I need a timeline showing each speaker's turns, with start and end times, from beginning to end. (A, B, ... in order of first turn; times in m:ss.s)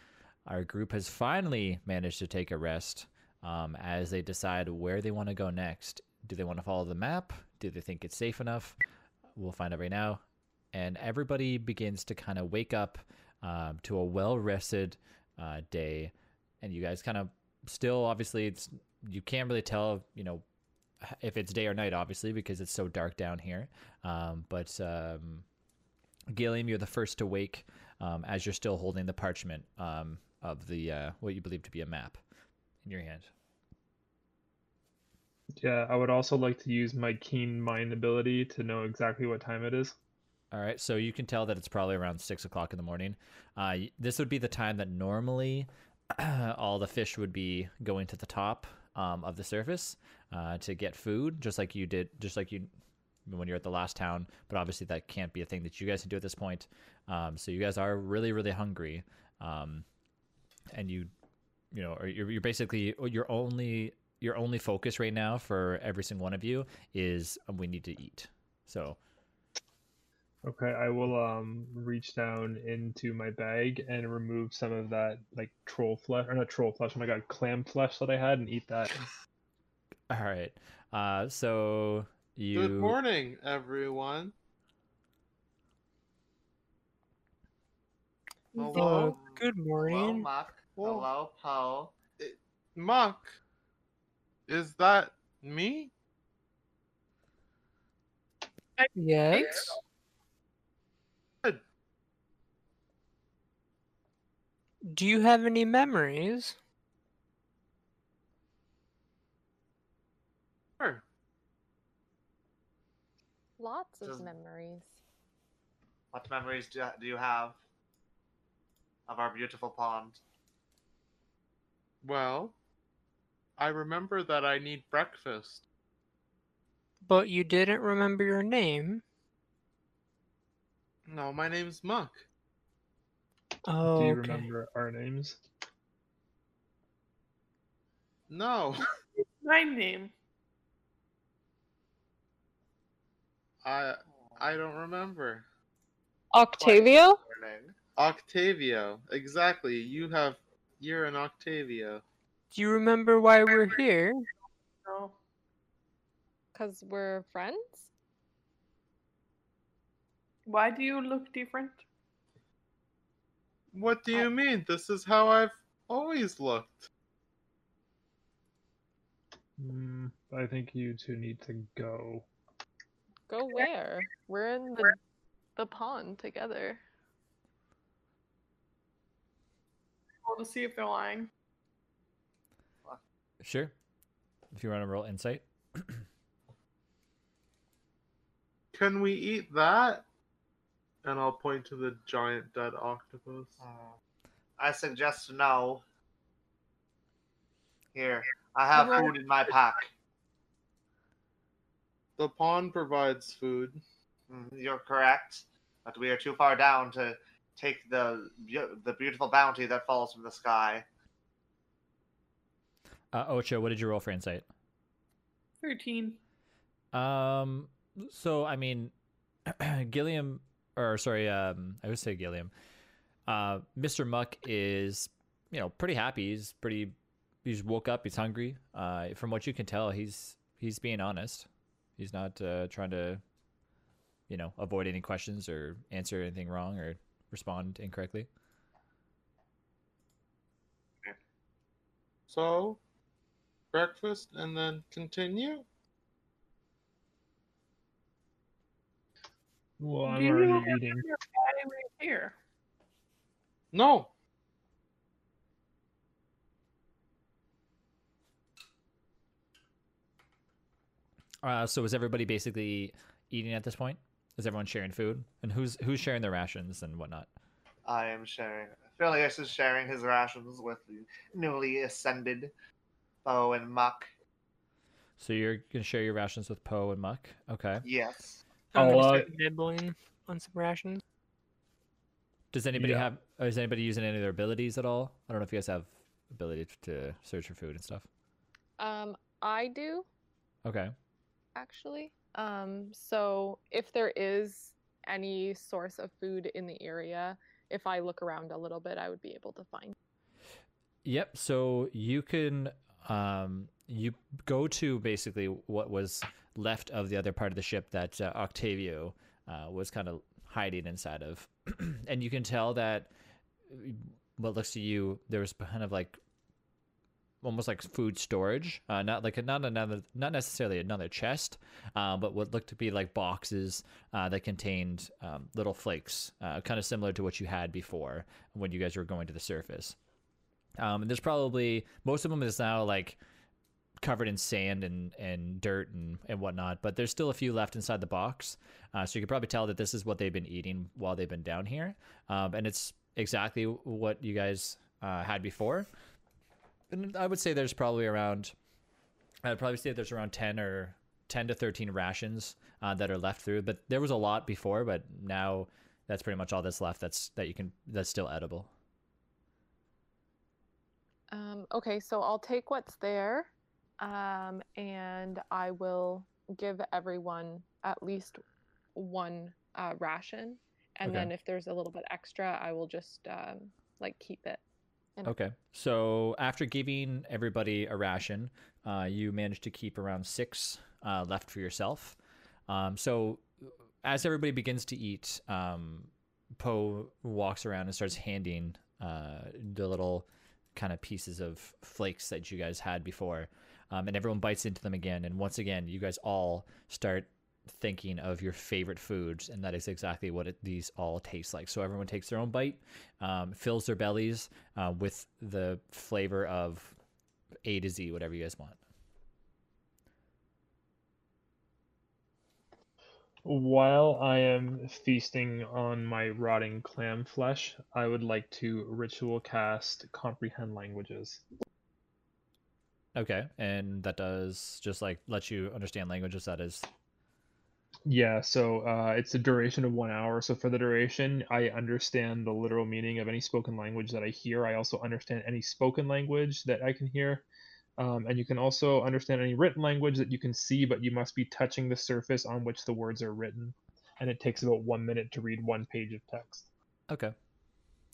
0:00.4-0:08.8 A
0:09.4-0:10.2 A
0:10.7-0:20.4 A
0:21.0-0:25.4 A
0:26.3-0:32.2 A
0:32.8-0:33.3 A
0:35.6-0:40.0 B
0:40.5-0:52.7 A
0:53.2-0:59.8 A
1:00.7-1:01.1 A
1:01.7-1:09.0 A
1:10.4-1:18.9 B
1:20.1-1:23.0 A
1:22.5-1:24.3 C
1:28.5-1:29.1 D
1:28.6-1:32.0 E
1:28.7-1:30.3 F
1:32.2-1:33.3 C
1:34.5-1:35.9 C
1:38.8-1:39.8 D
1:39.0-1:39.8 F
1:44.8-1:46.6 F
1:53.6-1:54.9 G
1:54.0-1:54.3 E
1:56.1-1:57.6 E
1:59.1-2:00.2 E
2:02.0-2:02.5 C
2:03.6-2:05.6 C
2:07.0-2:09.0 F
2:11.1-2:12.2 C
2:13.6-2:14.5 F
2:13.8-2:15.4 B
2:18.3-2:18.9 C
2:19.4-2:20.1 D
2:23.6-2:25.4 C
2:26.3-2:27.2 G
2:26.5-2:27.8 E
2:27.9-2:32.0 C
2:32.5-2:34.2 F
2:34.8-2:35.2 D
2:36.5-2:37.9 G
2:40.4-2:41.8 D
2:43.7-2:46.9 C
2:49.6-2:52.3 B
2:53.3-2:55.0 G
2:55.6-2:56.8 G
3:00.2-3:01.3 D
3:03.4-3:03.7 A
3:04.5-3:06.0 A
3:08.7-3:10.0 C
3:11.0-3:13.6 C
3:13.6-3:13.9 E
3:14.6-3:15.8 E
3:17.9-3:19.9 E
3:18.8-3:19.1 D
3:22.2-3:23.8 C
3:24.3-3:30.8 E
3:33.1-3:34.4 A
3:35.6-3:36.2 D
3:36.9-3:38.9 A
3:39.4-3:42.5 A
3:43.3-3:46.9 A
3:47.4-3:53.2 A
3:54.3-3:58.3 A
4:02.3-4:02.8 C
4:03.7-4:05.6 C
4:09.8-4:11.0 B
4:10.0-4:12.3 D
4:13.7-4:14.1 C
4:21.4-4:27.3 A
4:27.8-4:32.5 E
4:33.2-4:34.1 E
4:35.2-4:37.8 A
4:37.8-4:38.4 E
4:38.7-4:41.0 F
4:38.7-4:39.3 B
4:42.5-4:48.1 A
4:42.7-4:43.1 B
4:48.8-4:50.0 G
4:50.6-4:50.9 A
4:51.5-4:59.9 G
5:01.0-5:13.1 A
5:13.7-5:16.2 A
5:17.4-5:30.0 A
5:30.8-5:33.2 A
5:34.0-5:45.9 A
5:46.9-5:48.5 A
5:49.4-5:58.7 A
6:01.3-6:08.4 G
6:08.9-6:14.6 G
6:11.0-6:11.3 A
6:15.2-6:22.2 A
6:22.7-6:23.4 A
6:24.0-6:47.0 A
6:47.6-6:48.8 A
6:53.4-7:01.4 B
7:03.1-7:06.9 A
7:08.0-7:17.4 B
7:18.0-7:26.7 B
7:27.1-7:27.3 A